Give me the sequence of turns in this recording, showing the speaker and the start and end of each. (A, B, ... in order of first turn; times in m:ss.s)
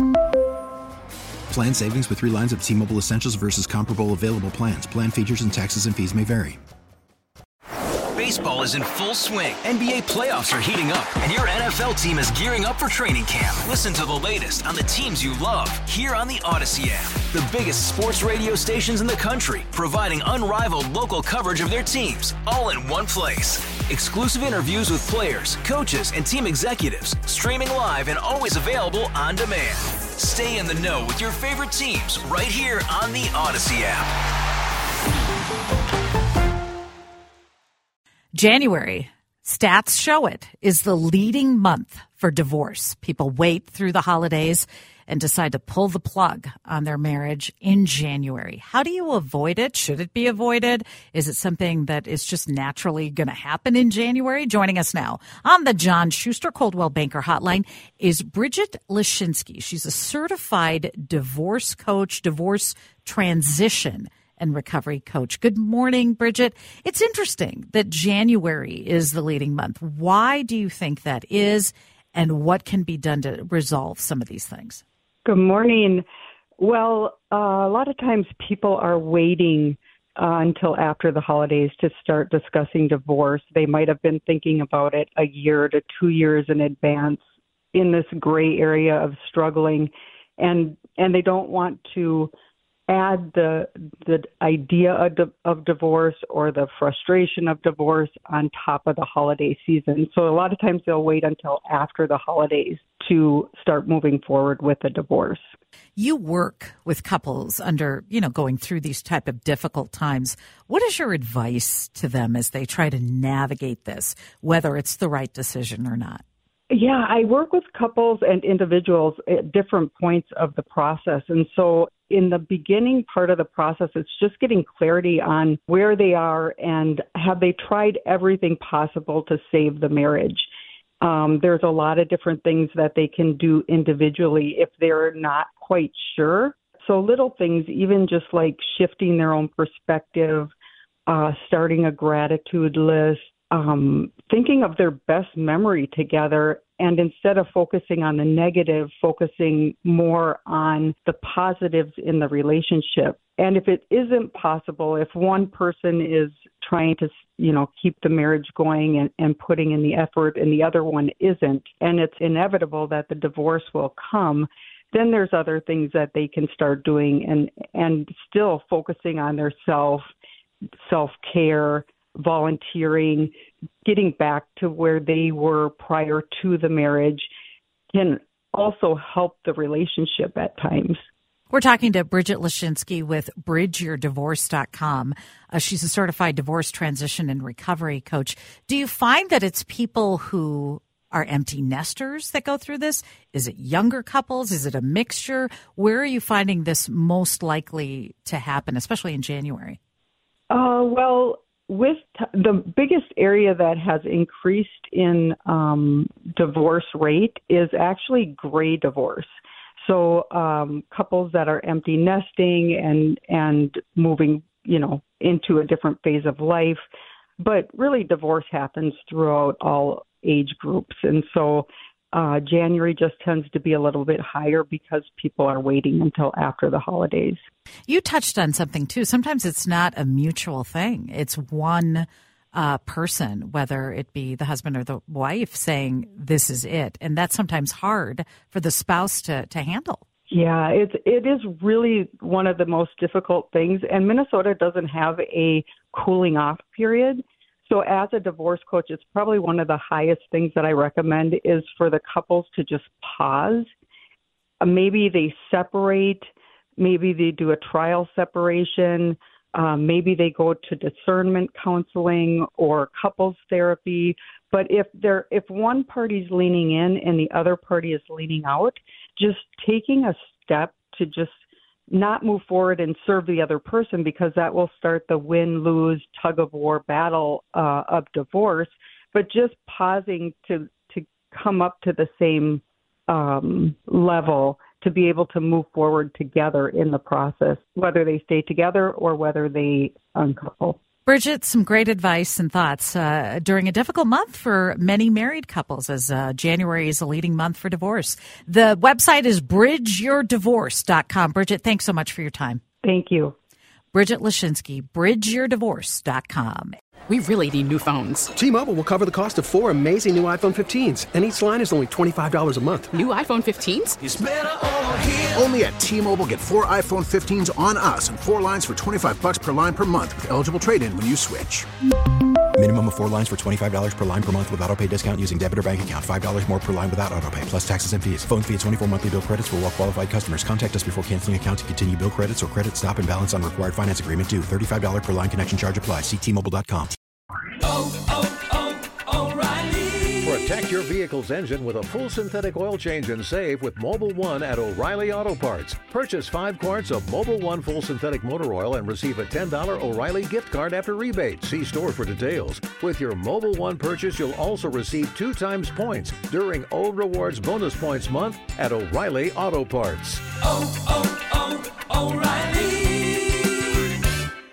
0:01.5-0:06.6 A
0:08.2-0:34.1 B
0:38.4-1:14.8 C
1:15.2-1:16.0 D
1:16.6-1:27.2 D
1:27.7-1:32.3 D
1:32.9-1:45.4 D
1:46.0-1:56.2 C
1:56.7-2:10.5 D
2:11.0-2:20.5 D
2:21.1-2:50.1 D
2:50.8-2:53.3 D
2:53.8-2:57.3 D
2:57.9-3:01.0 D
3:01.5-3:19.8 C
3:20.5-3:29.3 D
3:29.8-3:36.8 D
3:37.4-3:47.4 D
3:47.9-4:00.0 C
4:00.3-4:13.7 D
4:14.6-4:16.2 D
4:16.8-4:31.4 D
4:31.9-4:50.8 D
4:51.0-5:02.6 C
5:02.8-5:03.3 D
5:03.9-5:06.7 C
5:07.1-5:08.3 E
5:08.3-5:13.0 F
5:12.9-5:14.0 E
5:14.0-5:21.6 G
5:22.6-5:37.0 A
5:40.2-6:00.2 H